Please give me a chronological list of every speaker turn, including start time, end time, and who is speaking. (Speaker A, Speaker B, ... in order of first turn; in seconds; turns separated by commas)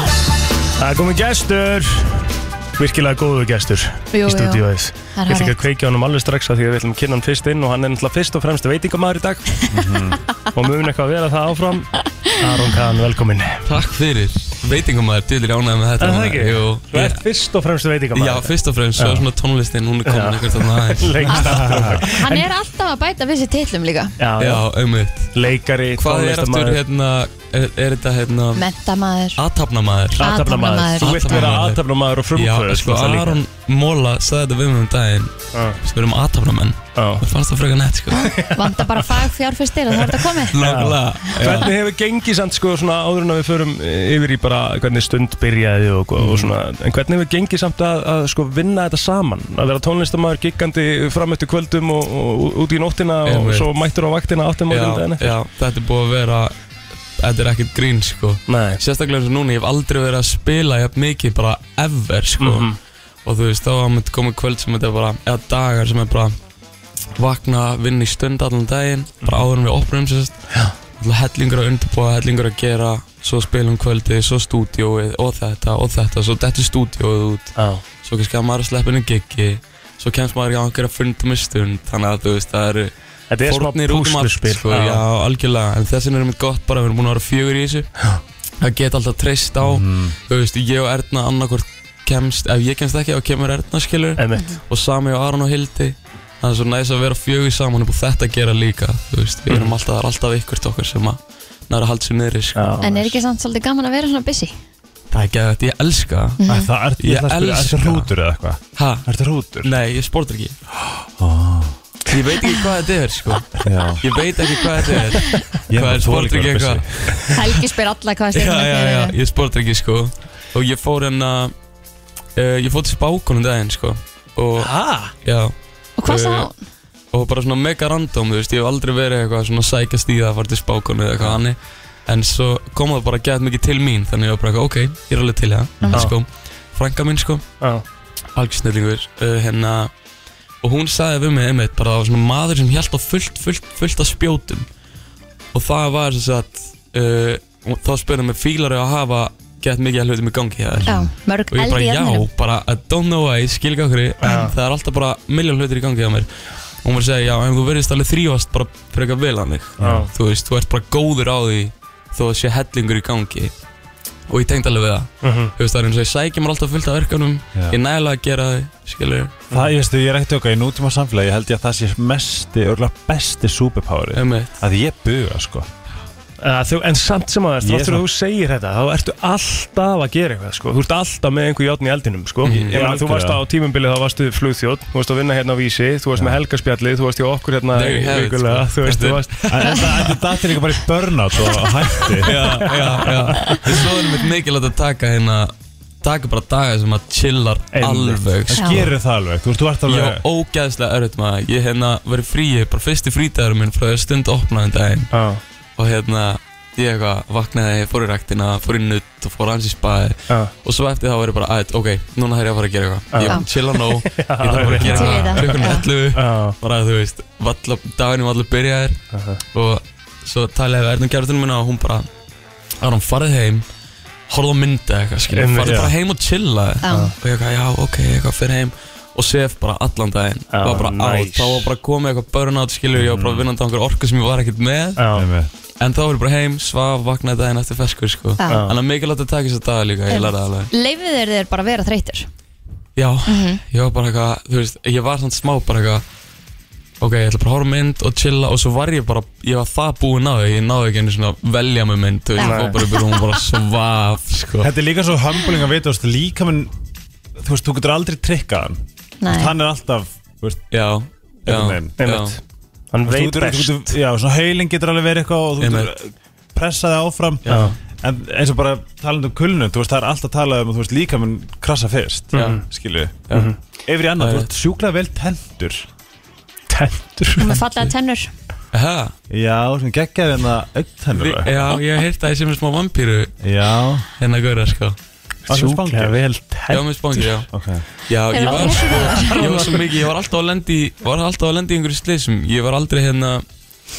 Speaker A: 0.8-9.5, Speaker B: 4.1-5.6, Speaker C: 9.7-10.2, Speaker A: 10.5-13.7, Speaker D: 13.7-17.2, Speaker A: 16.0-19.3, Speaker D: 18.1-21.2, Speaker A: 20.1-22.5, Speaker B: 21.3-24.1, Speaker C: 21.3-22.0, Speaker A: 24.2-24.7, Speaker D: 24.4-25.3, Speaker A: 25.3-26.8, Speaker D: 25.9-28.6, Speaker B: 28.6-29.4, Speaker D: 29.4-30.2, Speaker B: 30.2-31.2, Speaker A: 30.2-33.4, Speaker D: 31.0-38.3, Speaker A: 35.5-35.8, Speaker A: 37.0-37.3, Speaker B: 38.1-40.6, Speaker A: 38.2-39.2, Speaker A: 40.1-55.4, Speaker D: 40.5-41.8, Speaker D: 53.2-53.7, Speaker D: 54.7-56.5, Speaker D: 57.2-62.7, Speaker A: 58.5-58.8, Speaker A: 62.4-62.8, Speaker D: 63.2-66.3, Speaker D: 67.2-82.9, Speaker A: 77.6-77.8, Speaker A: 83.3-85.0, Speaker D: 83.4-87.9, Speaker D: 88.6-102.8, Speaker C: 89.6-90.2, Speaker A: 94.2-94.6, Speaker B: 94.3-94.6, Speaker A: 99.5-99.8, Speaker A: 102.6-103.1, Speaker B: 102.8-104.5, Speaker D: 105.1-106.4, Speaker B: 106.4-106.7, Speaker C: 106.5-109.7, Speaker D: 107.0-108.1, Speaker D: 108.8-109.1, Speaker D: 109.6-110.6, Speaker C: 110.8-111.8, Speaker D: 112.1-113.5, Speaker C: 113.6-114.0, Speaker D: 114.0-116.9, Speaker C: 115.7-117.6, Speaker B: 117.3-119.2, Speaker D: 118.3-121.5, Speaker D: 122.4-124.7, Speaker A: 124.6-125.1, Speaker D: 125.2-125.5, Speaker B: 126.0-126.5, Speaker D: 126.0-126.5, Speaker D: 127.1-137.5, Speaker C: 135.8-136.1, Speaker D: 138.3-139.9, Speaker D: 140.6-144.7, Speaker D: 145.5-156.3, Speaker C: 150.8-151.1, Speaker B: 150.8-152.3, Speaker A: 154.2-154.6, Speaker D: 156.8-163.5, Speaker C: 159.8-160.1, Speaker A: 159.8-160.1, Speaker D: 164.3-169.5, Speaker A: 165.2-165.5, Speaker C: 167.5-167.8, Speaker C: 169.5-175.7, Speaker D: 174.2-174.6, Speaker A: 176.4-189.5, Speaker C: 177.6-178.0, Speaker D: 182.4-182.9, Speaker C: 182.6-183.4, Speaker D: 187.7-189.8, Speaker C: 189.5-192.7, Speaker D: 192.2-198.8, Speaker A: 192.3-193.7, Speaker A: 197.7-198.2, Speaker C: 198.5-200.2, Speaker B: 198.5-198.9, Speaker D: 199.9-205.1, Speaker A: 205.1-205.4, Speaker D: 205.8-219.0, Speaker A: 213.1-216.6, Speaker B: 214.8-215.9, Speaker A: 219.1-219.4, Speaker D: 219.5-222.1, Speaker D: 222.8-223.7, Speaker D: 224.3-235.0, Speaker A: 225.3-225.9, Speaker C: 225.6-225.9, Speaker B: 226.8-227.1, Speaker A: 230.5-231.7, Speaker C: 232.9-233.5, Speaker A: 235.0-235.3, Speaker C: 235.1-235.5, Speaker D: 235.8-240.7, Speaker B: 238.4-238.7, Speaker A: 238.5-238.8, Speaker B: 240.1-242.3, Speaker D: 243.0-246.0, Speaker B: 243.3-243.6, Speaker D: 247.0-254.7, Speaker B: 252.4-253.4, Speaker A: 252.4-252.9, Speaker C: 254.6-256.7, Speaker C: 257.4-260.8, Speaker B: 259.2-259.5, Speaker D: 260.7-262.4, Speaker C: 261.5-262.0, Speaker A: 262.0-262.4, Speaker A: 262.9-263.9, Speaker C: 263.1-273.3, Speaker D: 265.6-265.9, Speaker D: 267.5-267.8, Speaker A: 267.5-267.8, Speaker A: 272.3-272.6, Speaker C: 273.9-275.9, Speaker D: 274.2-274.5, Speaker A: 276.7-277.6, Speaker B: 277.4-278.3, Speaker D: 278.7-279.1, Speaker C: 279.3-281.8, Speaker D: 281.1-283.3, Speaker C: 283.4-284.1, Speaker D: 284.2-285.0, Speaker A: 285.5-287.4, Speaker C: 285.5-286.2, Speaker D: 286.7-287.5, Speaker C: 287.5-287.9, Speaker D: 288.1-293.4, Speaker B: 288.3-289.4, Speaker A: 288.5-289.9